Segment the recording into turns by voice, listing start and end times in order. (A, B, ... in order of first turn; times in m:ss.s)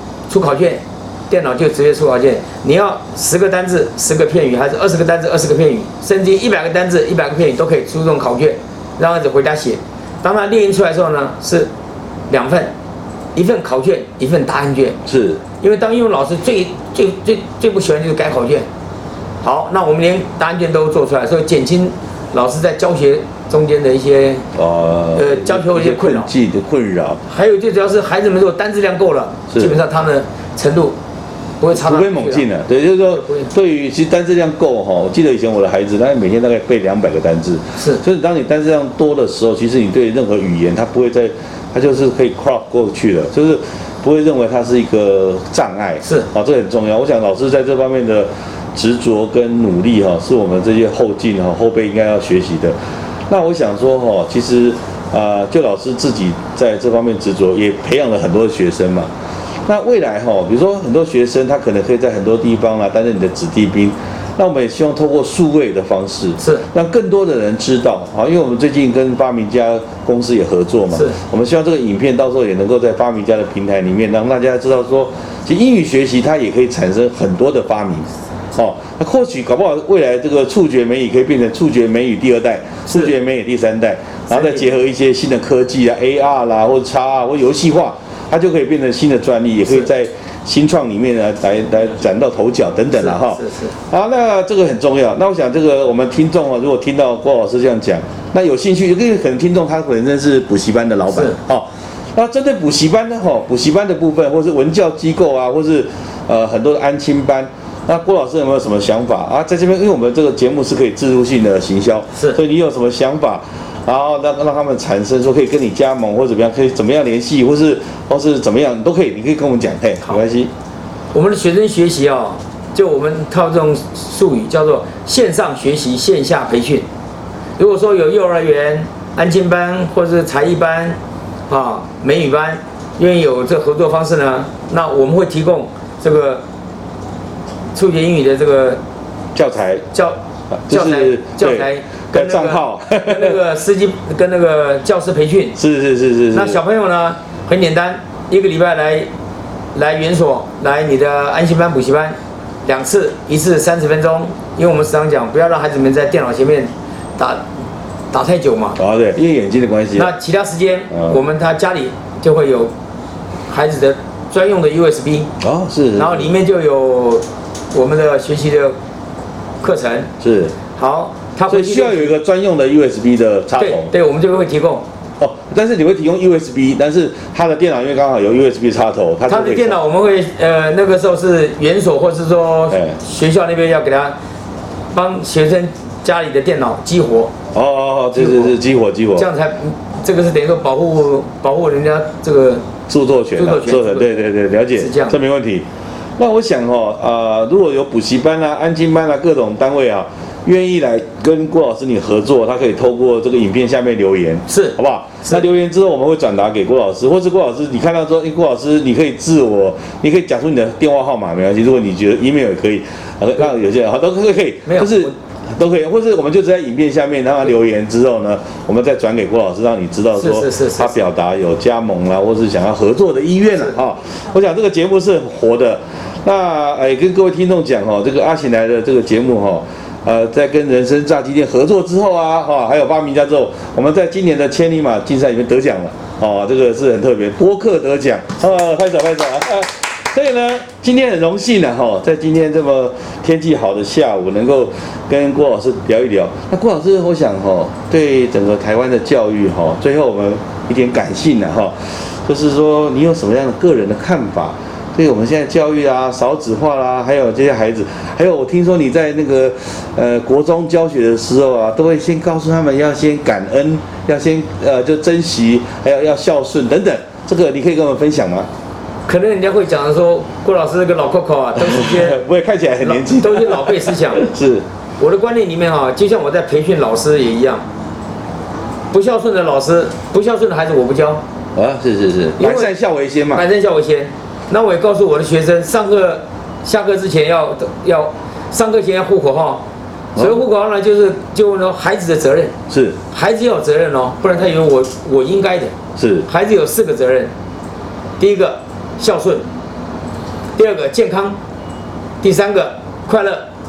0:00.3-0:11.7 A
0:12.3-0:12.7 A
0:13.3-0:15.0 A
0:15.0-0:15.4 B
0:15.6-0:18.7 A
0:19.4-0:24.4 A
0:24.5-0:27.2 B
0:25.1-0:26.3 A
0:27.3-0:31.0 A
0:29.5-0:29.8 B
0:31.6-0:32.5 A
0:31.7-0:52.8 B
0:33.1-0:33.5 A
0:37.8-0:38.0 A
0:46.0-0:46.3 A
0:53.3-0:59.1 B
0:59.6-2:00.5 B
1:06.4-1:06.6 A
1:10.9-1:11.2 A
1:22.9-1:23.1 A
1:24.3-1:24.7 A
1:32.9-1:33.7 A
1:41.1-1:41.4 A
2:01.1-2:06.8 A
2:07.6-2:11.0 A
2:11.5-2:16.4 A
2:17.7-2:18.8 A
2:19.3-2:19.8 B
2:19.9-2:25.6 A
2:20.6-2:23.4 B
2:25.6-2:26.6 B
2:26.3-2:29.1 A
2:29.7-2:37.4 A
2:38.1-2:38.8 A
2:38.8-2:40.1 B
2:39.9-2:42.7 A
2:43.5-2:45.3 A
2:45.4-2:46.3 B
2:46.0-2:48.8 A
2:49.6-2:50.1 A
2:50.2-2:50.5 B
2:50.8-2:52.1 A
2:51.5-2:53.9 B
2:53.6-2:54.8 A
2:55.2-2:59.8 B
2:59.3-3:04.2 A
3:02.7-3:03.0 B
3:04.9-3:07.3 A
3:07.5-3:09.3 B
3:08.1-3:08.5 A
3:09.2-3:12.6 A
3:12.9-3:15.6 B
3:13.3-3:15.2 A
3:16.2-4:28.5 B
3:24.5-3:25.4 A
3:34.6-3:35.1 A
3:40.1-3:41.0 A
4:29.1-4:32.2 A
4:31.6-4:34.6 B
4:32.8-4:34.2 A
4:35.0-4:37.6 A
4:38.9-4:41.2 A
4:41.5-4:43.4 B
4:42.4-4:42.7 A
4:43.3-4:49.6 A
4:50.2-4:52.5 A
4:52.7-4:53.0 B
4:53.1-4:55.7 A
4:56.0-4:56.3 B
4:56.2-4:57.3 A
4:58.2-4:59.5 A
5:00.5-5:01.4 A
5:02.2-5:03.5 A